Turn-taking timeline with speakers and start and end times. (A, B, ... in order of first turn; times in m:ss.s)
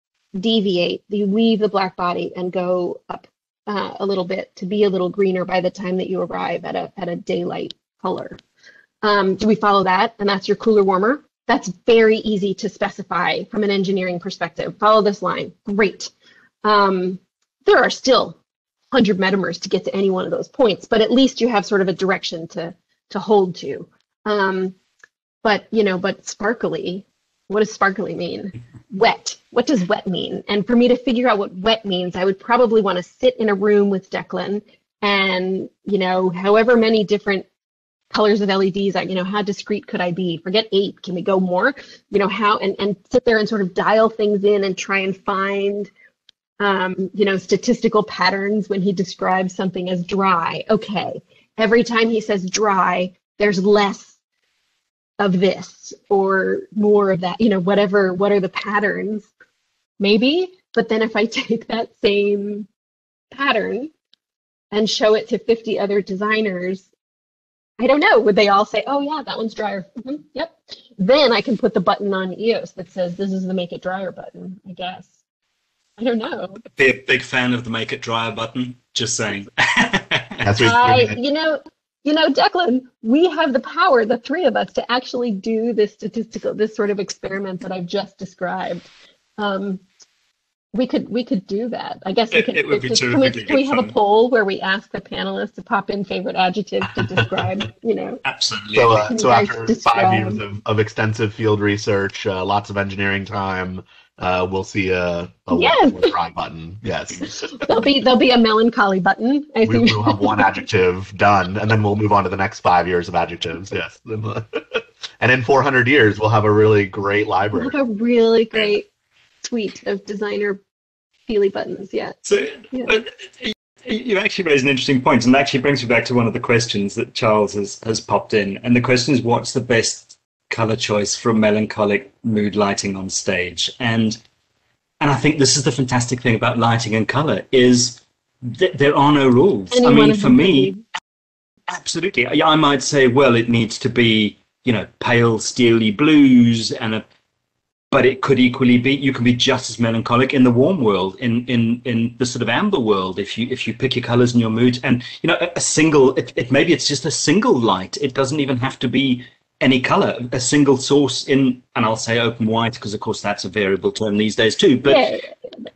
0:00.4-0:08.4 A
0:09.0-0:16.1 A
0:16.6-0:18.4 A
0:18.9-0:24.8 A
0:25.4-0:37.5 A
0:38.1-0:45.9 A
0:46.6-0:54.2 A
0:55.2-0:59.3 A
1:00.0-1:02.7 A
1:03.3-1:03.9 A
1:04.7-1:06.9 A
1:07.8-1:15.2 A
1:16.0-1:16.6 A
1:16.7-1:20.7 B
1:20.4-1:21.2 C
1:20.6-1:29.8 A
1:30.7-1:38.2 A
1:32.3-1:33.9 B
1:38.2-1:39.1 B
1:38.7-1:47.9 C
1:39.1-1:40.4 A
1:45.5-1:46.1 A
1:47.4-1:50.5 A
1:49.6-1:57.8 C
1:57.6-1:58.9 A
1:59.4-2:00.6 A
2:01.3-2:02.2 A
2:02.2-2:14.2 B
2:02.7-2:03.0 A
2:15.0-2:20.8 B
2:19.7-2:20.8 A
2:21.7-2:27.0 B
2:27.9-2:45.1 B
2:44.8-2:45.3 A